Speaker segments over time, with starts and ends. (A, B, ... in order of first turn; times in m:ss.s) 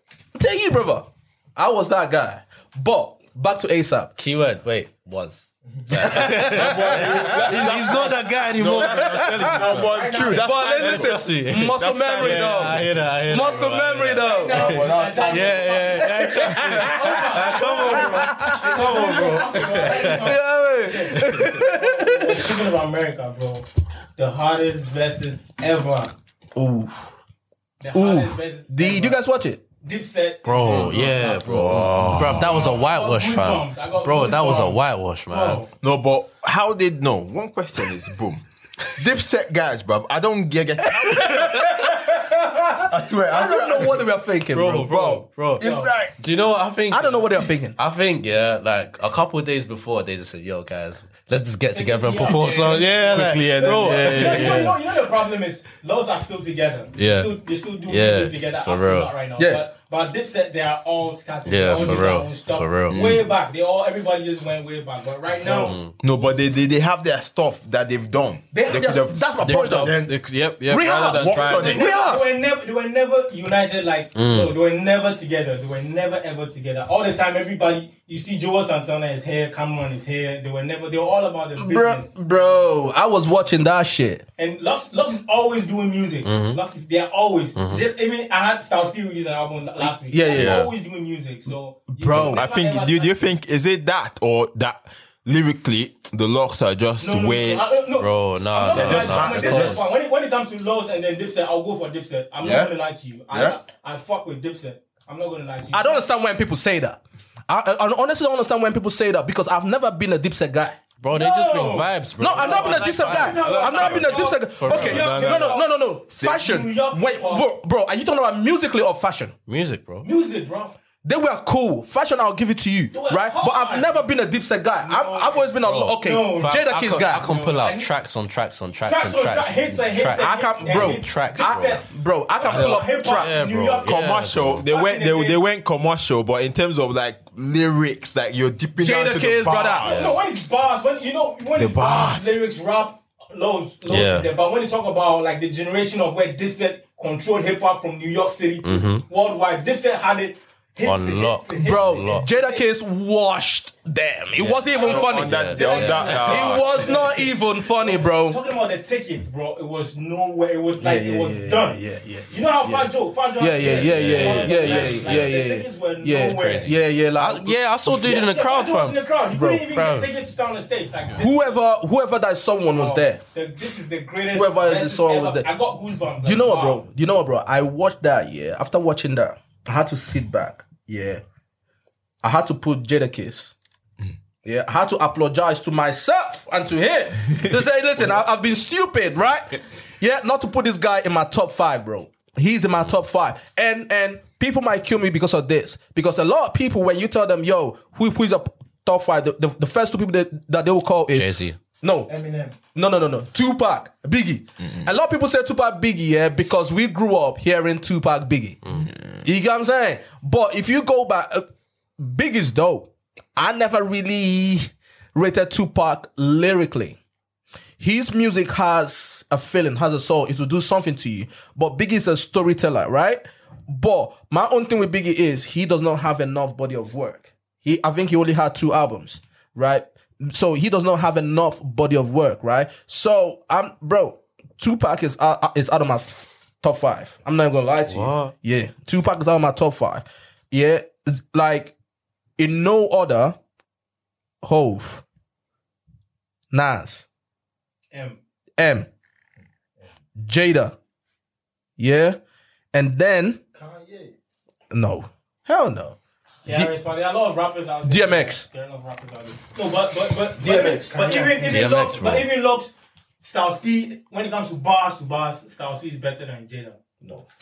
0:00.3-0:04.1 A
0:04.2-0:09.6 B
0:06.0-0:06.6 A
0:06.4-0:13.0 C
0:07.5-0:10.1 D
0:09.9-0:10.3 E
0:10.2-0:14.7 A
0:10.9-0:14.2 B
0:12.2-0:13.8 D
0:14.1-0:23.6 E
0:14.6-0:15.9 C
0:15.3-0:19.6 D
0:15.3-0:16.1 B
0:16.0-0:16.8 A
0:16.4-0:16.7 C
0:17.8-0:18.9 A
0:18.7-0:20.2 B
0:20.0-0:22.5 A
0:24.2-0:26.1 E
0:26.5-0:27.0 A
0:27.8-0:29.2 E
0:27.9-0:29.6 A
0:29.8-0:35.7 E
0:30.4-0:35.7 B
0:30.6-0:31.9 D
0:32.0-0:32.5 C
0:35.8-0:38.4 C
0:38.9-0:42.2 C
0:41.0-0:45.2 A
0:42.7-0:44.1 C
0:44.5-0:45.2 D
0:44.8-0:46.2 C
0:45.2-0:45.6 B
0:45.6-0:45.9 E
0:46.2-0:54.6 B
0:46.9-0:47.8 A
0:51.7-1:05.8 E
0:52.7-0:54.8 D
0:57.0-0:59.1 B
0:59.4-0:59.6 A
1:01.4-1:03.2 B
1:02.9-1:03.2 C
1:05.4-1:05.9 B
1:06.0-1:10.1 C
1:08.5-1:10.1 A
1:09.4-1:11.7 D
1:10.7-1:12.4 A
1:11.1-1:11.8 C
1:11.5-1:22.7 E
1:14.1-1:14.5 B
1:21.6-1:24.2 A
1:24.4-1:33.1 E
1:26.2-1:26.6 B
1:27.6-1:27.9 B
1:29.8-1:30.7 A
1:30.3-1:30.7 B
1:31.9-1:32.4 A
1:32.1-1:37.7 C
1:37.0-1:46.0 E
1:37.9-1:39.9 B
1:38.7-1:39.9 C
1:42.4-1:42.7 C
1:43.3-1:43.6 C
1:45.7-1:50.8 A
1:51.0-1:55.2 B
1:51.1-1:57.4 E
1:52.2-1:59.3 A
1:53.5-1:53.8 D
1:54.7-1:55.6 C
1:59.5-2:00.1 B
2:00.0-2:00.7 E
2:01.0-2:07.3 A
2:02.9-2:04.1 E
2:04.8-2:07.9 E
2:05.6-2:11.8 B
2:08.8-2:11.8 E
2:10.2-2:13.3 A
2:12.4-2:14.0 E
2:12.4-2:12.9 C
2:13.0-2:14.6 B
2:13.9-2:20.2 C
2:14.7-2:15.4 E
2:18.8-2:20.1 A
2:19.8-2:32.6 E
2:21.6-2:22.4 C
2:23.9-2:24.3 B
2:28.6-2:29.0 B
2:30.8-2:32.3 B
2:31.6-2:38.4 A
2:34.4-2:34.7 B
2:34.7-2:41.8 E
2:34.8-2:37.1 C
2:35.3-2:36.2 B
2:40.8-2:48.1 A
2:42.3-2:46.7 E
2:43.6-2:45.3 B
2:46.3-2:49.0 B
2:47.9-2:51.4 E
2:49.3-2:49.6 A
2:49.7-2:50.2 B
2:51.2-2:53.2 A
2:52.7-2:56.8 E
2:54.3-2:55.5 A
2:56.2-3:01.2 A
3:02.2-3:03.5 A
3:04.4-3:21.3 A
3:21.1-3:21.6 B
3:21.8-3:22.1 A
3:22.1-3:22.6 F
3:22.7-3:28.6 A
3:29.2-3:31.5 A
3:32.0-3:37.0 A
3:37.8-4:01.7 A
3:57.9-3:58.3 B
4:02.4-4:03.4 A
4:04.4-4:05.0 A
4:06.5-4:07.1 A
4:07.9-4:08.2 E
4:08.6-4:08.9 A
4:10.2-4:10.8 A
4:11.8-4:12.2 A
4:12.7-4:13.4 A
4:13.5-4:14.1 F
4:14.7-4:16.7 A
4:16.4-4:26.8 E
4:17.8-4:18.4 A
4:20.4-4:20.9 A
4:20.4-4:21.8 F
4:21.4-4:22.3 B